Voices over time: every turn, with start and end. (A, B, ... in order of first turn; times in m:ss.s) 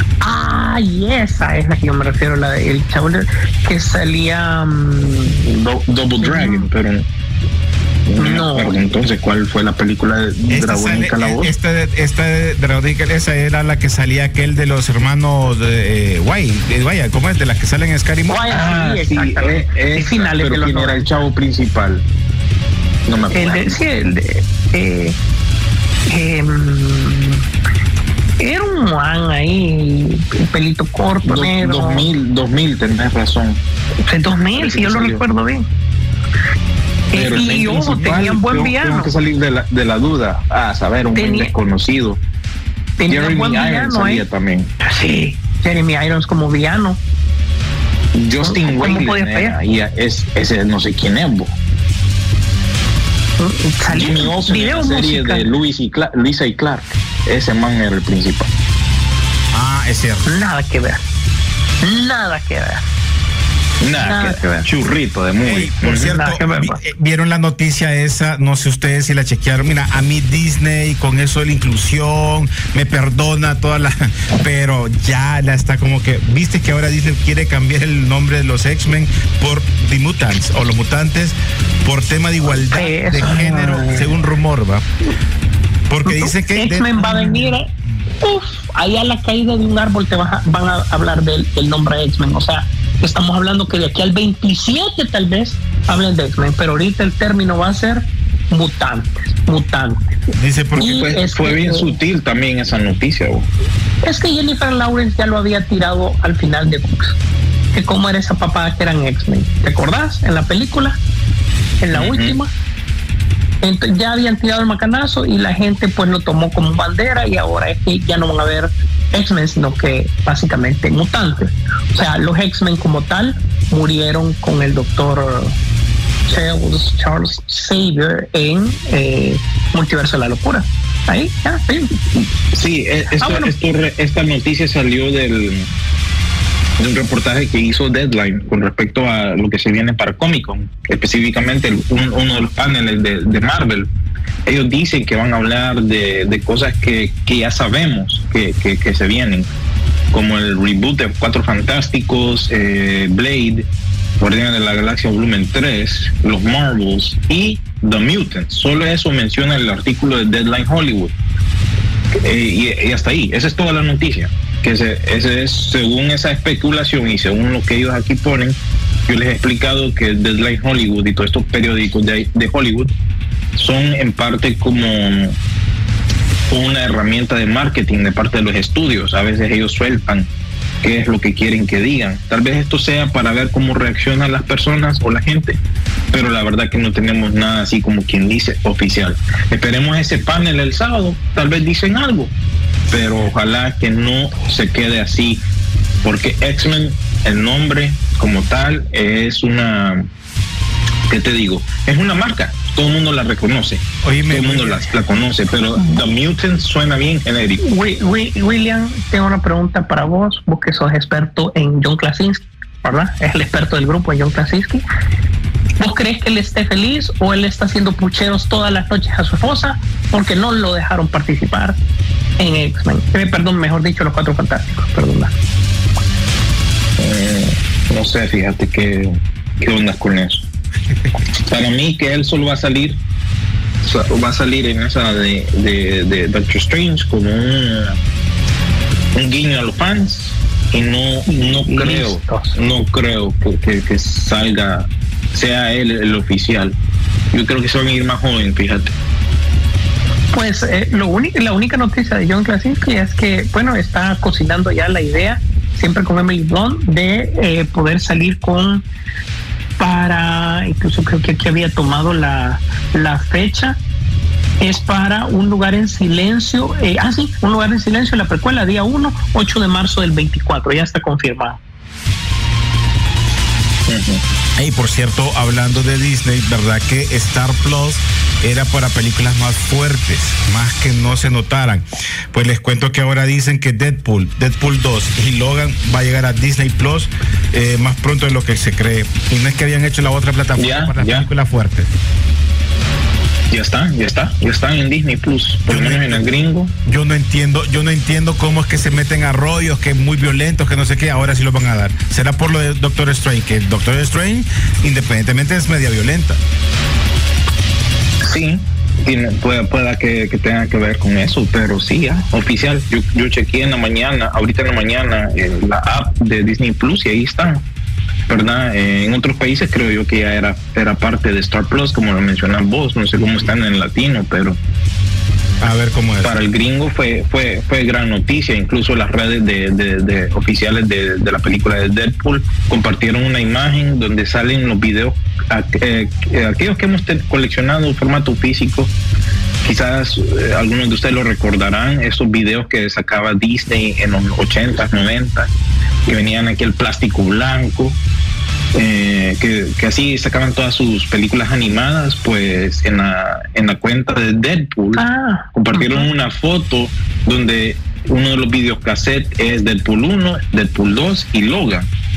0:00.2-0:05.4 A
0:05.4-0:07.1 B
0:06.2-0:06.7 A
0:08.1-0:11.5 B
0:08.2-0:08.8 A
0:10.5-0:18.5 C
0:18.3-0:21.1 A
0:18.5-0:22.0 B
0:23.1-0:23.8 B
0:23.3-0:25.2 A
0:26.1-0:27.4 A
0:28.4-0:32.1 A
0:31.2-0:33.6 B
0:34.1-0:35.6 A
0:34.5-0:35.2 B
0:37.1-0:39.1 A
0:37.1-0:42.2 B
0:41.2-0:41.5 A
0:43.0-0:44.2 A
0:43.1-0:44.7 B
0:44.8-0:47.0 A
0:48.2-0:51.6 B
0:48.4-0:49.6 A
0:53.4-0:55.5 A
0:53.9-0:58.5 B
0:59.5-1:00.3 C
1:00.3-1:01.0 A
1:01.8-1:02.8 A
1:03.8-1:06.2 B
1:04.0-1:04.7 A
1:05.4-1:24.8 C
1:05.8-1:06.8 A
1:22.6-1:24.0 A
1:23.4-1:24.0 B
1:25.9-1:26.9 C
1:26.0-1:27.7 A
1:27.0-1:27.4 B
1:28.2-1:40.2 A
1:40.3-1:41.0 C
1:40.8-1:43.5 B
1:40.8-1:41.9 A
1:44.0-1:47.2 A
1:47.7-1:51.0 A
1:51.8-1:52.5 A
1:51.9-1:52.4 B
1:53.6-2:05.6 A
2:06.3-2:12.0 A
2:12.5-2:15.7 B
2:13.2-2:13.5 A
2:16.8-2:23.9 B
2:24.5-2:29.5 B
2:30.1-2:33.7 B
2:34.2-2:41.1 B
2:42.1-2:52.9 B
2:53.6-2:55.4 B
2:56.5-3:00.3 B
3:00.8-3:05.6 B
3:06.1-3:12.4 B
3:12.9-3:15.4 B
3:16.0-3:20.1 B
3:21.1-3:27.6 B
3:24.0-3:24.9 C
3:27.6-3:34.8 A
3:35.8-3:41.8 A
3:42.4-3:45.3 A
3:47.0-3:50.5 B
3:51.4-3:53.0 B
3:53.8-3:58.0 B
3:59.2-4:06.8 B
4:01.3-4:02.6 A
4:07.3-4:08.9 B
4:10.3-4:18.8 A
4:19.8-4:23.8 A
4:24.6-4:31.6 A
4:33.9-4:34.2 B
4:34.6-4:51.9 C
4:50.6-4:51.3 B
4:53.5-4:56.7 B
4:55.7-4:56.2 C
4:56.8-5:06.4 C
5:08.2-5:17.6 B
5:18.3-5:24.6 B
5:25.6-5:26.4 C
5:26.2-5:38.9 B
5:39.6-5:45.5 B
5:46.1-5:48.0 B
5:48.7-6:01.9 B
5:55.0-5:56.1 A